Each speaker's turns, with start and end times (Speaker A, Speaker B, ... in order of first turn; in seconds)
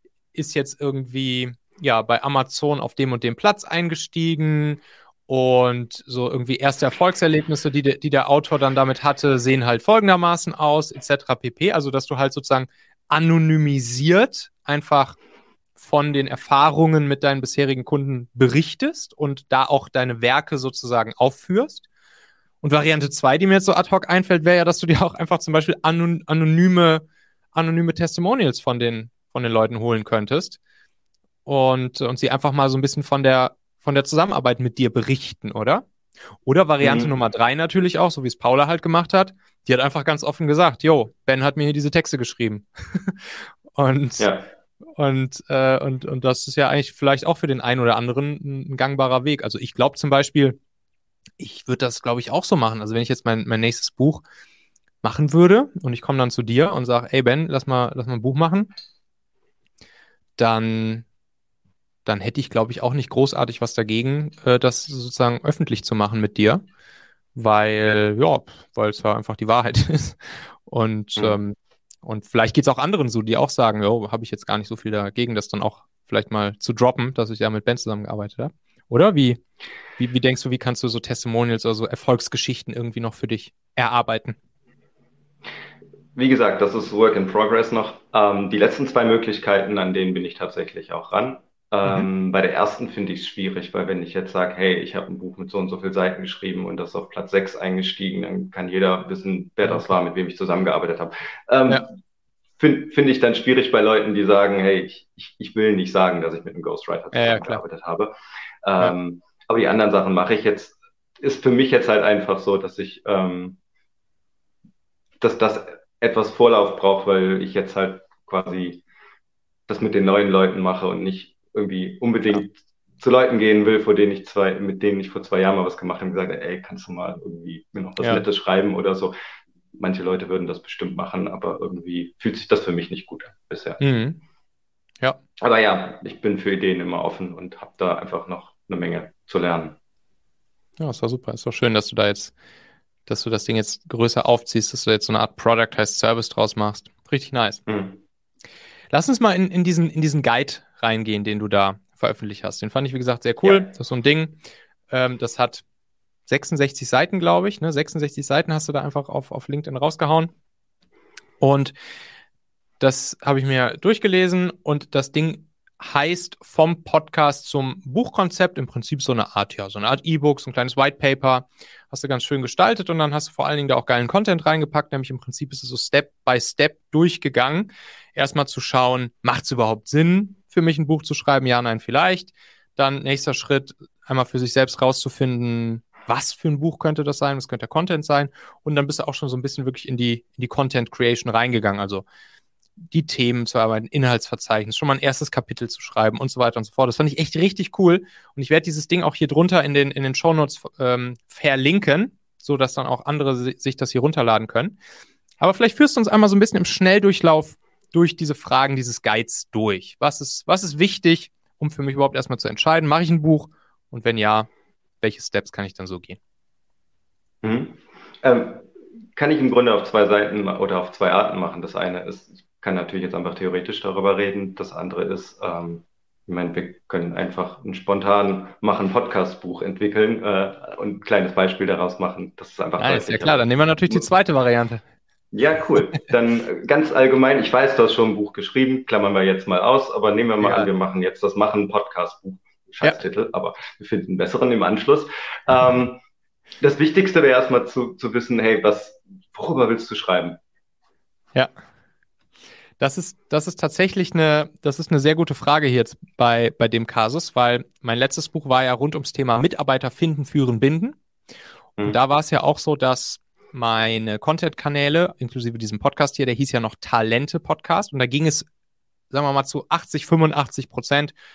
Speaker A: 0.3-15.2, 15.8-21.9, 22.6-30.6, 31.4-35.9, 36.5-44.3, 45.0-50.6, 51.4-54.2, 55.0-58.7, 60.4-61.0, 62.0-66.6, 67.3-79.4, 80.0-84.4, 99.7-100.0, 107.1-107.6, 128.0-128.2, 133.8-134.2, 140.8-142.3, 143.1-147.6, 148.9-154.4, 154.9-155.6, 156.3-160.3, 161.4-161.8, 162.8-192.1, 192.9-204.8, 205.4-214.5, 215.0-216.2, 232.8-234.8, 240.4-240.7, 252.8-261.0, 261.8-268.5, 269.1-271.1
Speaker B: 36.8-37.1, 44.2-44.5, 86.2-101.9, 102.6-108.1, 108.6-113.6, 115.2-118.8, 119.7-129.1, 129.8-133.8, 135.4-139.8, 147.7-148.0, 153.4-153.7, 217.4-234.1, 235.3-246.0, 246.6-250.4